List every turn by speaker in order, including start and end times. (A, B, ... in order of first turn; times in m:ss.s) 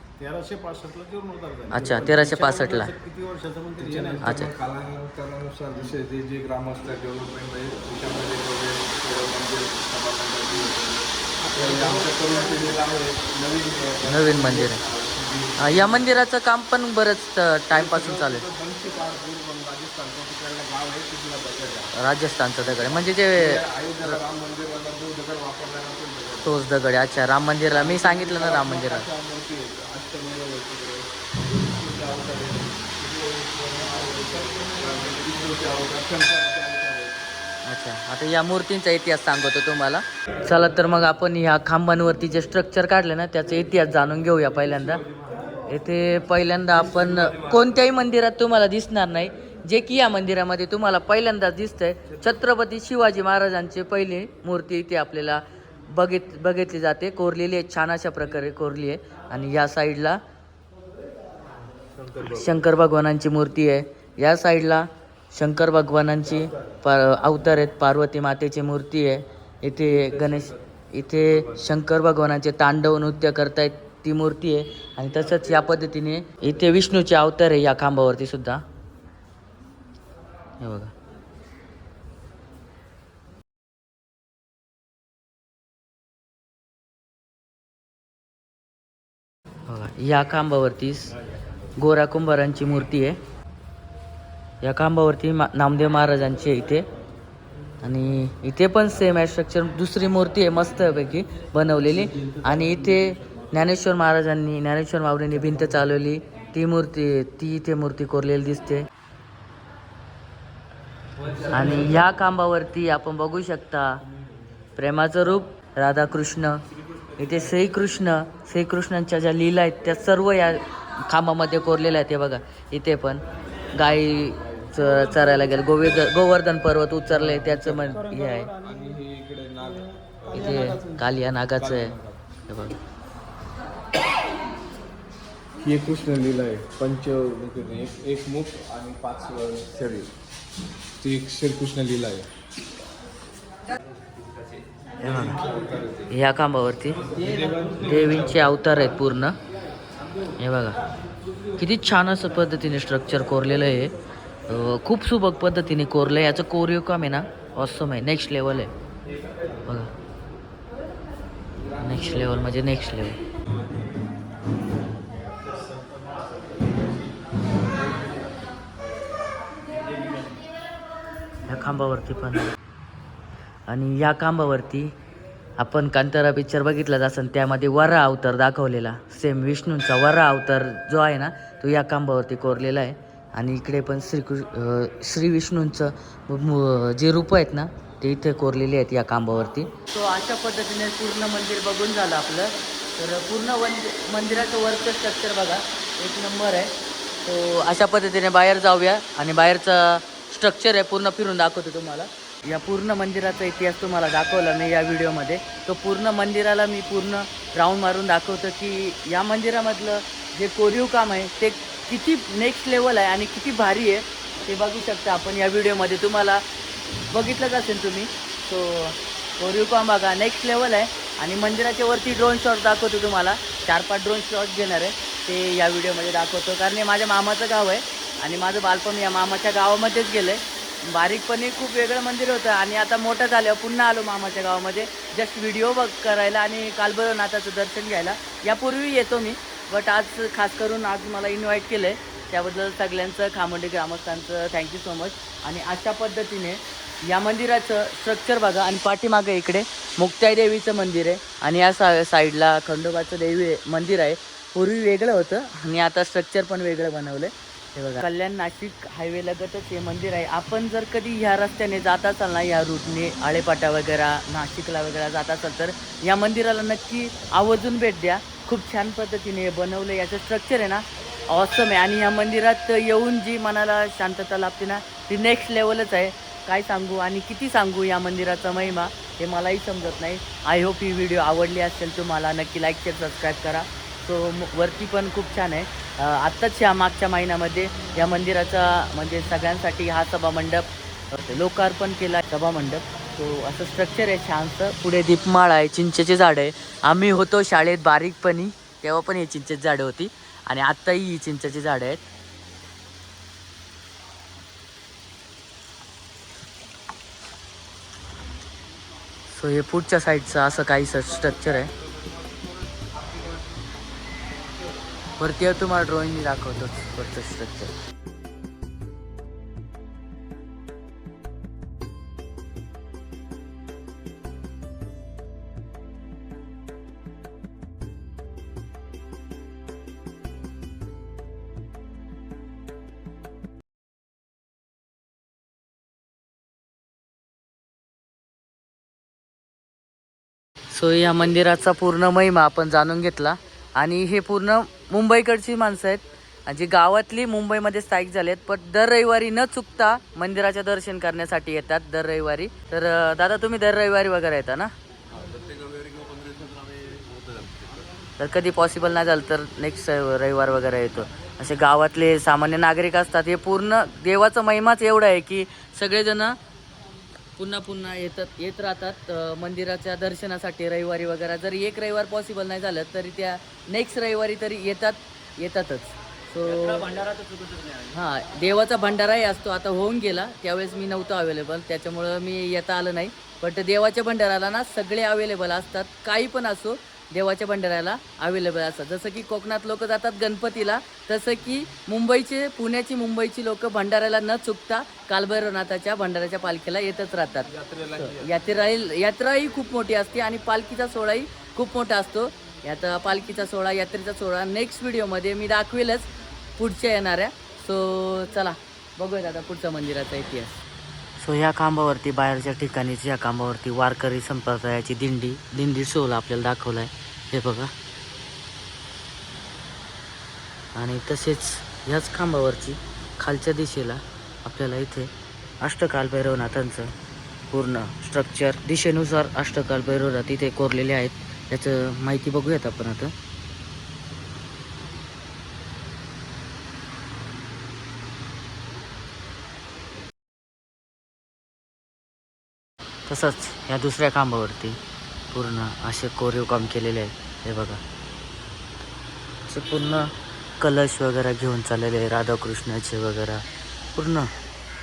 0:00.2-0:04.3 A
0:01.7-0:02.9 B
0:01.8-0:02.1 C
0:03.8-0:16.1 C
0:04.2-0:04.6 B
0:11.5-0:12.8 A
0:14.1-0:14.8 B
0:15.6-0:18.5 B
0:17.7-0:21.9 C
0:21.9-0:24.2 B
0:22.6-0:26.6 C
0:26.4-0:29.1 B
0:27.7-0:37.2 C
0:37.6-0:45.0 B
0:45.7-1:00.2 B
1:02.2-1:18.6 B
1:20.6-1:20.9 B
1:29.7-1:31.2 B
1:31.8-1:33.2 B
1:34.6-1:36.9 B
1:37.8-1:48.9 B
1:51.5-1:54.0 B
1:54.8-1:56.6 B
1:57.2-2:03.2 B
2:03.7-2:08.5 B
2:07.1-2:08.0 C
2:08.6-2:11.0 C
2:10.3-2:12.0 B
2:11.6-2:12.2 C
2:12.5-2:12.8 B
2:15.6-2:20.1 C
2:21.0-2:22.3 C
2:25.0-2:25.4 B
2:25.0-2:26.1 C
2:26.1-2:27.0 B
2:27.1-2:28.5 C
2:27.8-2:29.4 B
2:30.4-2:30.8 B
2:31.6-2:33.9 B
2:34.5-2:38.7 B
2:41.8-2:43.2 B
2:45.1-2:48.3 A
2:49.7-2:50.4 A
2:51.5-2:52.5 B
2:53.7-2:54.9 B
2:55.6-3:16.7 B
3:17.2-3:36.4 B
3:37.1-5:02.0 B
5:09.3-5:11.7 B
5:15.2-5:17.7 B
5:40.7-5:54.7 B
5:58.2-6:06.4 B
6:07.4-6:17.1 B
6:17.8-6:50.6 B
6:37.6-6:38.2 C
6:51.2-6:57.7 B
7:00.8-7:05.1 B
7:05.6-7:06.9 B
7:07.5-7:13.1 B
7:23.1-7:24.8 B
7:25.3-7:27.8 B
7:29.5-7:34.3 B